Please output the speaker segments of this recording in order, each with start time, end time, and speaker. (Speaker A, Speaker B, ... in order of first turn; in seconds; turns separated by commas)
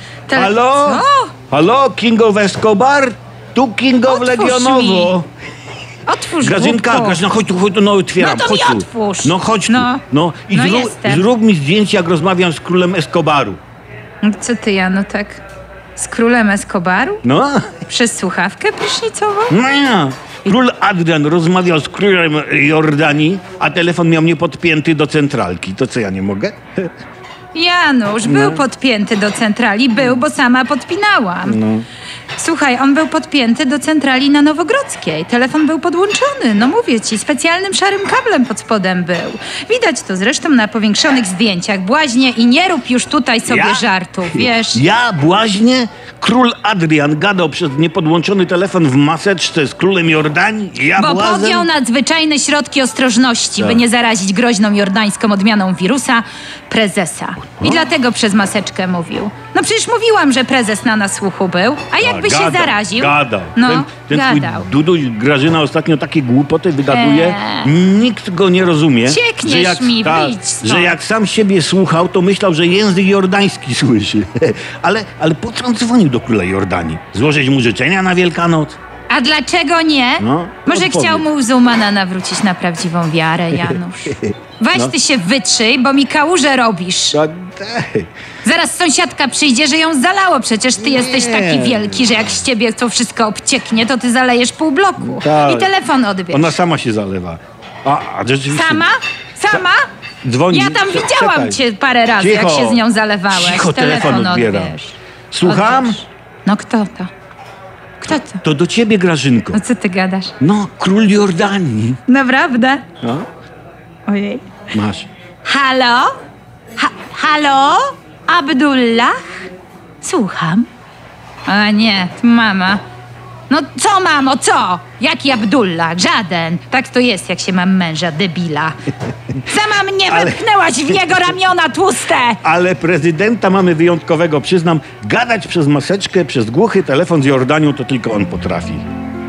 Speaker A: 0.3-1.3, Speaker B: 0.3-5.3, Speaker A: 4.0-5.1, Speaker A: 6.0-7.2, Speaker B: 6.4-13.6, Speaker A: 8.2-11.3, Speaker A: 14.2-15.4, Speaker A: 15.9-17.2, Speaker B: 17.2-17.8, Speaker A: 17.8-19.6, Speaker B: 19.5-26.9, Speaker A: 27.5-31.6, Speaker B: 28.2-28.6, Speaker B: 30.0-30.2, Speaker B: 31.4-31.9, Speaker A: 32.4-44.8, Speaker B: 43.5-51.7, Speaker A: 50.9-64.7, Speaker B: 53.6-53.8, Speaker B: 62.0-78.8, Speaker A: 66.9-67.7, Speaker A: 69.0-71.0, Speaker A: 79.1-87.2, Speaker B: 80.2-81.3, Speaker B: 83.5-84.9, Speaker B: 87.1-88.1, Speaker A: 88.4-96.5, Speaker B: 90.8-92.3, Speaker B: 95.0-95.7, Speaker B: 96.3-98.9, Speaker A: 98.5-99.9, Speaker B: 100.2-101.6, Speaker A: 100.5-107.1, Speaker B: 102.2-104.8, Speaker B: 105.3-106.0, Speaker A: 108.0-108.4, Speaker B: 108.4-109.6, Speaker A: 109.5-110.3, Speaker B: 110.4-112.0, Speaker A: 112.0-112.8, Speaker A: 114.1-114.4, Speaker B: 114.7-115.1, Speaker A: 115.4-116.1, Speaker A: 116.8-119.5, Speaker A: 120.0-120.7, Speaker A: 121.5-122.8, Speaker A: 123.5-128.8, Speaker A: 129.4-132.4, Speaker B: 130.1-131.3, Speaker B: 132.4-138.8